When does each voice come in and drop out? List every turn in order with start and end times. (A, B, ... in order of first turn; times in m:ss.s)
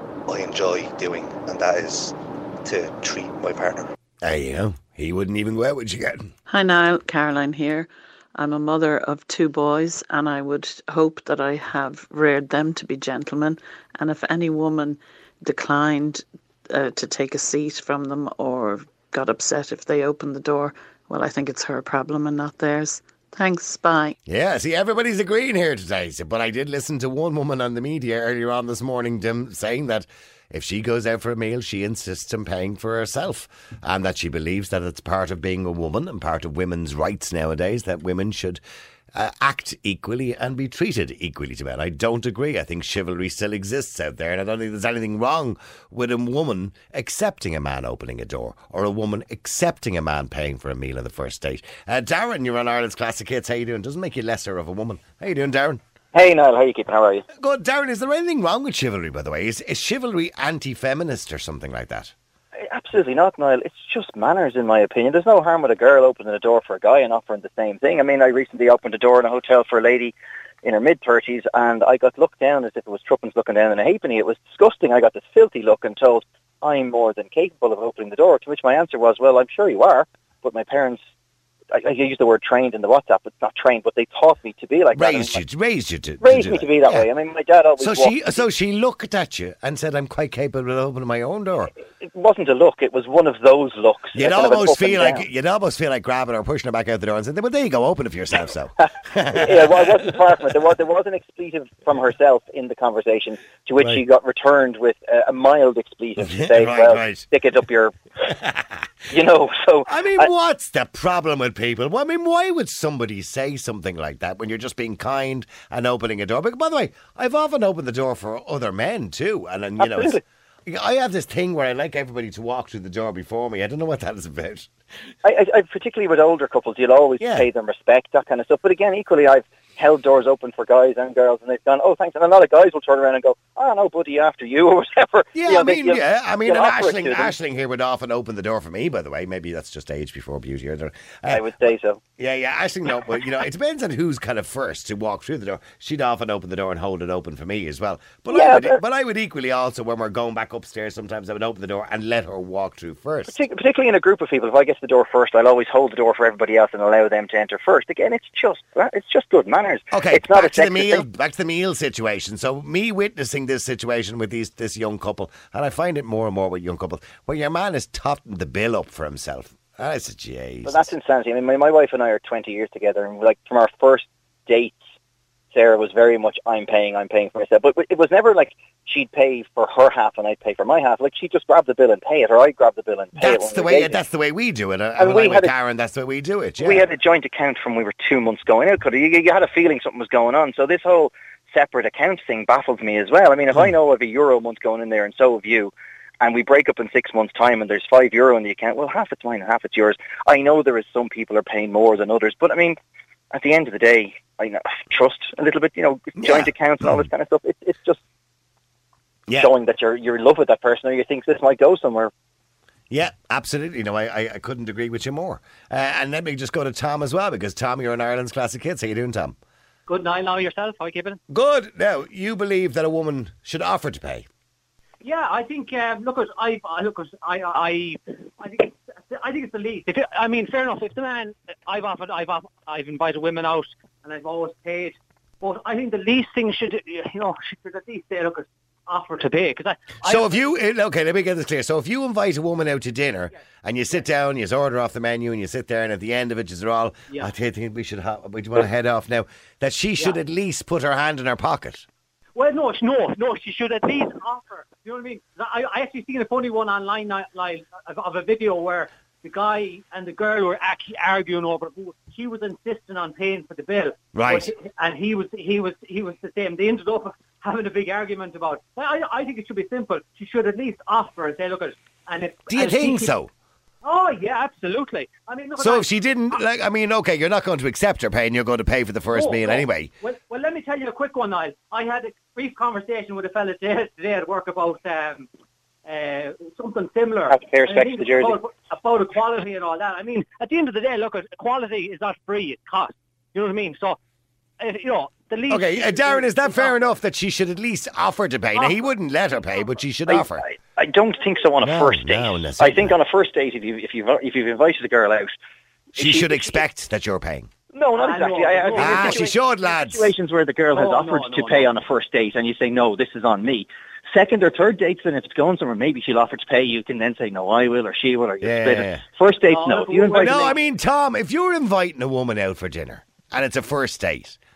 0:00.3-0:03.9 A
0:04.2-0:06.3 B
0:06.5-0:24.2 C
0:24.3-0:38.6 B
0:39.1-0:55.8 B
0:56.1-0:57.3 D
0:57.3-1:02.1 B
1:02.6-1:21.0 D
1:21.7-1:25.4 D
1:24.9-1:27.1 B
1:26.2-1:28.4 D
1:27.8-1:31.7 B
1:32.0-1:35.2 D
1:34.1-1:40.1 B
1:39.3-1:47.9 D
1:46.2-1:47.3 B
1:48.2-1:48.8 B
1:49.1-1:50.3 D
1:49.9-2:04.7 B
1:59.8-2:00.2 D
2:05.2-2:17.3 D
2:07.2-2:07.5 B
2:15.4-2:33.4 B
2:21.3-2:22.0 D
2:28.3-2:28.8 D
2:33.3-2:41.0 D
2:39.9-2:50.9 B
2:50.6-2:54.8 D
2:55.5-3:04.0 D
3:03.2-3:06.9 B
3:05.0-3:05.5 D
3:06.6-3:22.8 D
3:23.3-3:28.0 D
3:26.2-3:27.1 B
3:29.4-3:32.1 D
3:32.9-3:39.4 B
3:39.9-3:41.2 E
3:41.3-3:44.3 B
3:45.0-4:00.7 E
4:00.0-4:11.9 B
4:12.4-4:33.1 E
4:24.1-4:24.5 B
4:32.5-4:33.3 B
4:33.8-4:36.4 E
4:35.6-4:39.9 B
4:39.1-4:45.3 E
4:45.8-4:54.0 E
4:47.3-4:48.4 D
4:54.6-4:57.0 E
4:55.5-5:00.4 B
4:58.5-4:58.8 E
5:00.1-5:05.4 D
5:01.6-5:03.0 B
5:06.0-5:06.6 D
5:06.0-5:07.5 B
5:07.7-5:20.5 D
5:08.0-5:09.3 E
5:08.8-5:10.1 B
5:10.7-5:11.7 E
5:18.4-5:19.0 B
5:19.5-5:20.6 E
5:20.1-5:24.4 B